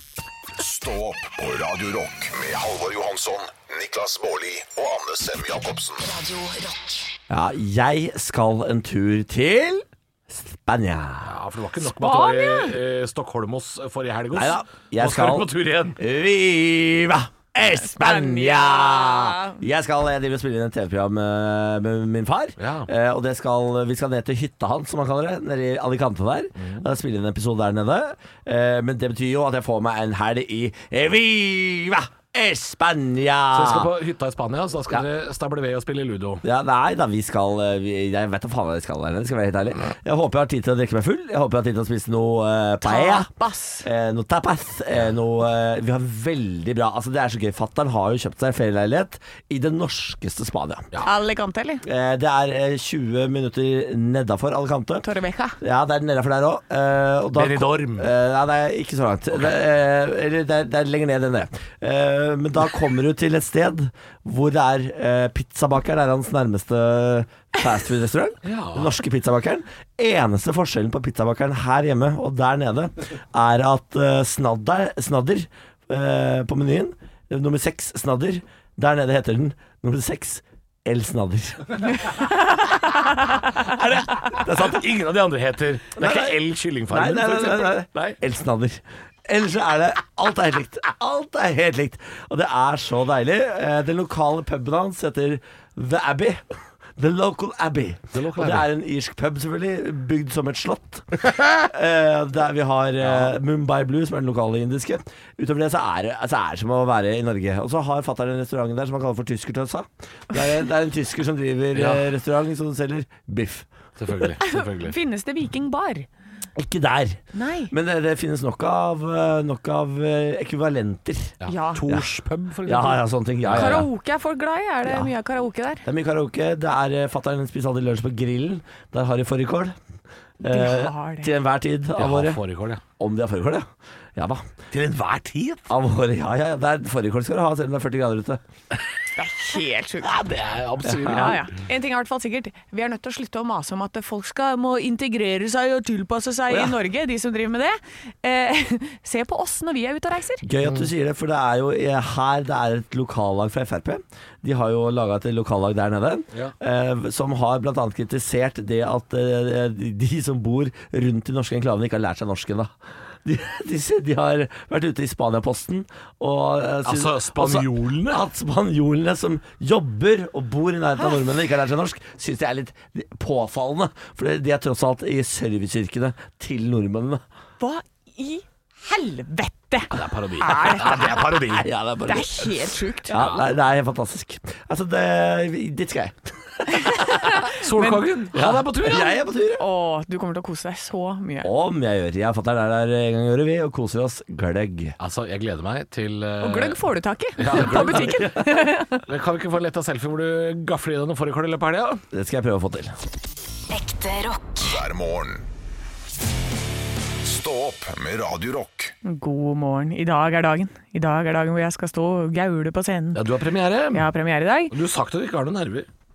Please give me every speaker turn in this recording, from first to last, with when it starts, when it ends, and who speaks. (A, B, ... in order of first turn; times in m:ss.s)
0:00.6-0:06.0 A
0:06.0-0:07.1 B
0:07.3-0:11.4 C
0:11.2-0:16.0 D
0:11.8-0:12.8 E
0:14.3-0:33.9 C
0:17.6-0:19.6 E
0:22.6-0:22.9 D
0:26.6-0:26.9 D
0:33.5-0:36.4 D
0:36.4-0:43.3 C
0:42.8-0:43.9 E
0:43.8-0:50.9 C
0:51.0-0:51.8 E
0:51.8-0:55.1 C
0:55.0-0:55.6 E
0:55.6-1:21.9 C
0:57.4-0:58.1 D
1:08.4-1:09.0 D
1:22.1-1:23.1 E
1:23.8-1:28.2 D
1:24.3-1:24.8 C
1:26.0-1:26.4 C
1:26.9-1:36.4 C
1:37.0-1:53.7 C
1:38.1-1:38.7 D
1:43.0-1:43.4 D
1:51.8-1:52.1 D
1:54.0-1:55.0 D
1:54.4-1:56.1 E
1:56.6-2:01.4 C
1:57.3-1:57.7 E
2:01.4-2:03.9 D
2:01.5-2:01.8 E
2:02.6-2:03.9 C
2:03.5-2:05.8 E
2:05.8-2:09.8 C
2:10.4-2:12.4 C
2:10.4-2:11.3 E
2:12.0-2:12.8 D
2:13.0-2:14.6 C
2:14.7-2:15.6 D
2:15.7-2:18.4 C
2:19.2-2:20.1 E
2:20.0-2:21.5 D
2:21.1-2:30.4 E
2:30.4-2:57.2 C
2:30.6-2:30.9 D
2:46.8-2:48.2 D
2:57.6-3:01.1 E
2:59.9-3:01.7 D
3:01.4-3:02.5 C
3:02.1-3:03.2 E
3:03.1-3:07.3 C
3:03.1-3:03.5 D
3:06.8-3:08.0 E
3:07.5-3:09.2 D
3:08.3-3:09.6 C
3:09.6-3:11.5 E
3:11.4-3:15.0 C
3:15.0-3:16.8 D
3:16.4-3:19.0 E
3:17.4-3:22.0 D
3:17.9-3:18.3 C
3:22.1-3:22.9 C
3:23.7-3:24.8 B
3:24.6-3:25.4 A
3:27.2-3:28.9 A
3:29.0-3:33.2 E
3:33.1-3:34.1 D
3:33.9-3:34.7 E
3:34.7-3:35.9 D